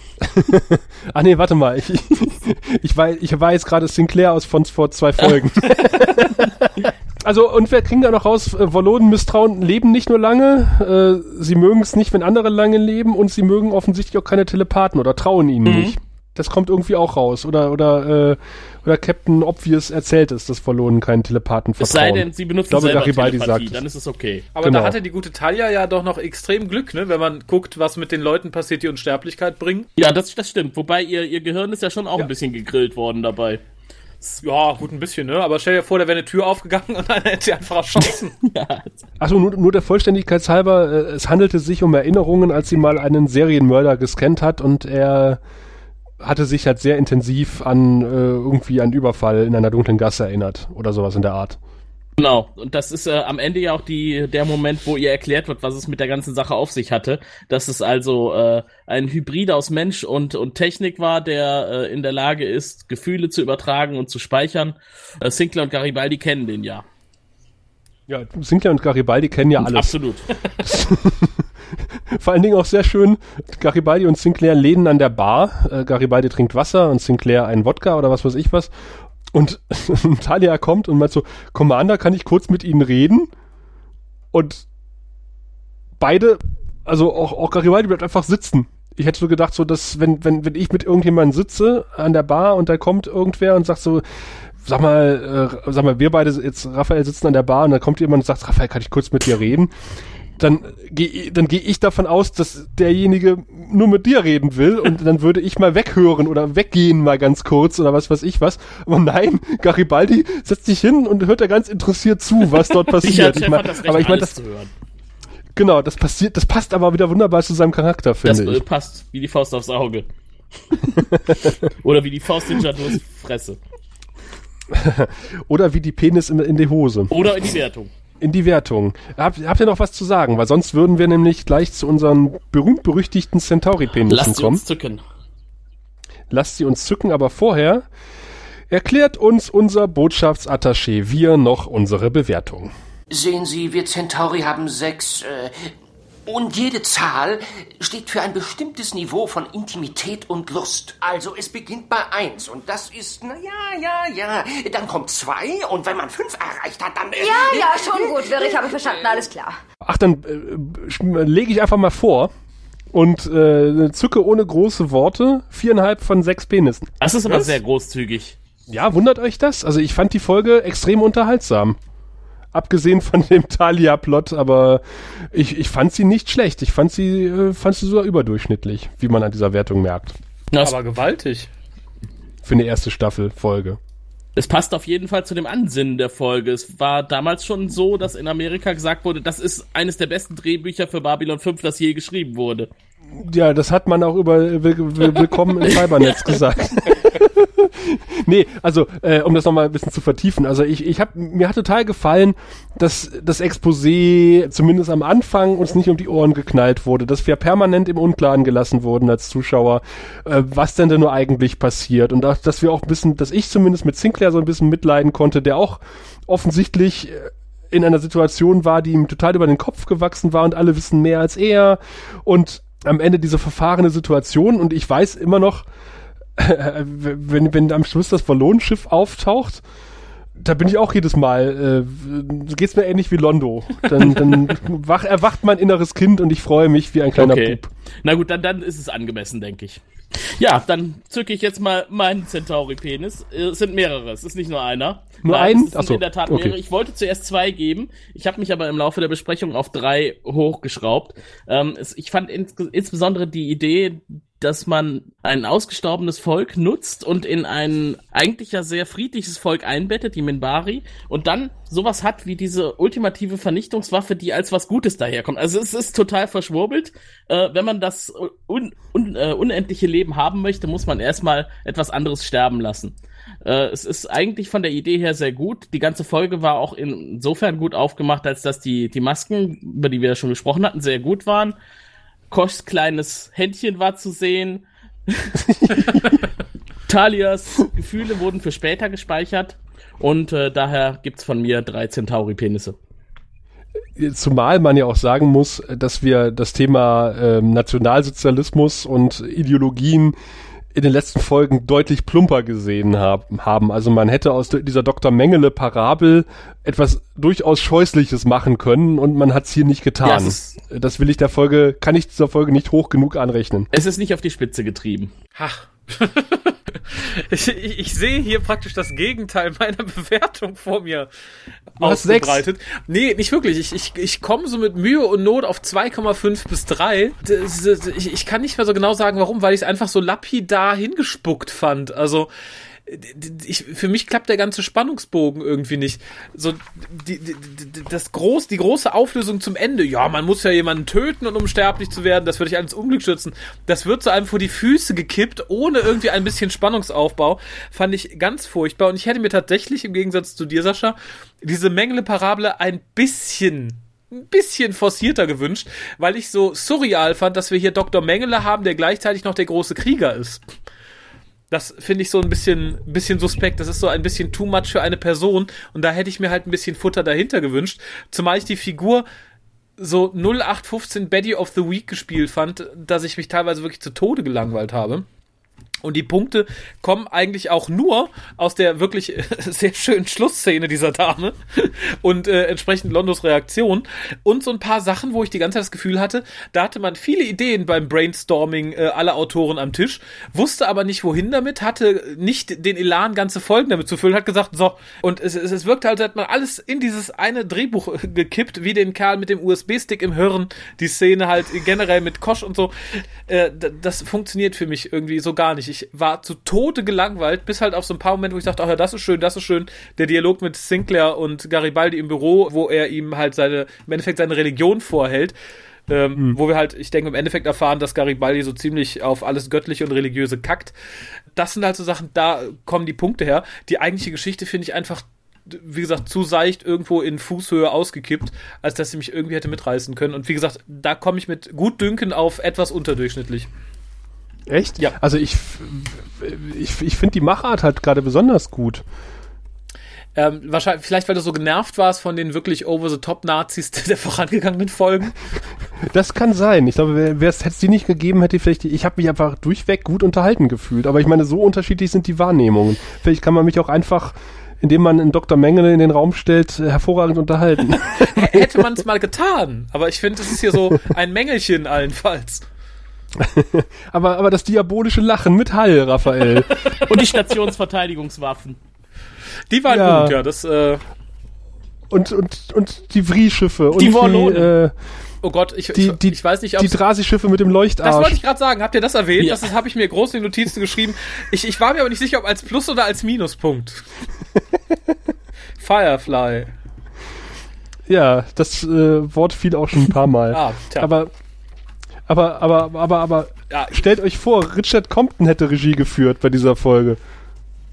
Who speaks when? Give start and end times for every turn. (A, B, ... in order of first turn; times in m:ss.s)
0:00.2-0:23.8 A
0:15.7-0:16.0 B
0:21.8-0:24.5 B
0:24.6-0:29.9 C
0:24.6-0:25.0 A
0:30.0-0:33.6 B
0:34.4-0:38.4 C
0:38.4-0:39.0 B
0:39.2-0:45.4 A
0:46.2-0:51.6 A
0:52.2-1:06.8 B
1:08.1-1:09.9 A
1:09.6-1:10.3 B
1:10.6-1:18.7 A
1:19.3-1:23.3 A
1:24.3-1:24.7 A
1:26.0-1:39.7 A
1:40.4-1:54.4 A
1:52.9-1:54.7 B
1:55.6-1:58.6 A
1:58.2-2:00.1 B
2:00.7-2:03.6 B
2:01.0-2:01.6 A
2:04.7-2:07.2 A
2:07.1-2:07.9 B
2:08.2-2:14.6 A
2:14.1-2:15.0 B
2:16.3-2:17.9 A
2:18.7-2:22.7 A
2:23.1-2:25.7 D
2:26.3-2:39.1 D
2:37.2-2:39.6 E
2:39.8-2:42.3 A
2:42.9-2:47.5 A
2:47.0-2:48.4 B
2:48.7-2:51.8 A
2:52.5-3:00.2 A
3:00.5-3:00.8 B
3:00.6-3:01.5 C
3:02.4-3:03.8 A
3:04.4-3:12.7 B
3:13.1-3:45.7 A
3:15.6-3:16.4 B
3:46.4-3:49.6 A
3:50.4-3:57.7 A
3:57.1-4:41.6 B
4:05.2-4:06.6 A
4:42.3-4:45.4 B
4:45.5-4:46.2 A
4:46.9-4:52.8 B
4:54.0-5:00.2 A
5:00.7-5:13.7 A
5:10.0-5:10.6 B
5:13.7-5:15.1 B
5:15.4-5:21.1 C
5:21.8-5:32.3 C
5:21.8-5:22.4 A
5:32.9-6:00.4 C
6:01.5-6:09.0 C
6:09.8-6:15.1 C
6:15.8-6:55.4 C
6:55.9-7:00.7 C
7:01.3-7:13.5 C
7:14.5-7:18.8 A
7:20.2-7:25.2 C
7:25.8-7:38.6 A
7:37.8-7:42.4 C
7:43.2-7:46.6 A
7:46.7-7:47.0 C
7:46.8-7:48.6 B
7:49.5-7:50.8 C
7:49.7-7:50.2 A
7:51.9-7:54.7 A
7:53.7-7:54.5 B
7:55.2-7:56.8 C
7:55.7-7:58.2 A
7:57.8-8:03.9 C
7:59.2-7:59.5 B
8:05.6-8:06.5 C
8:07.9-8:11.1 A
8:10.3-8:10.9 C
8:12.1-8:17.0 A
8:13.5-8:13.8 C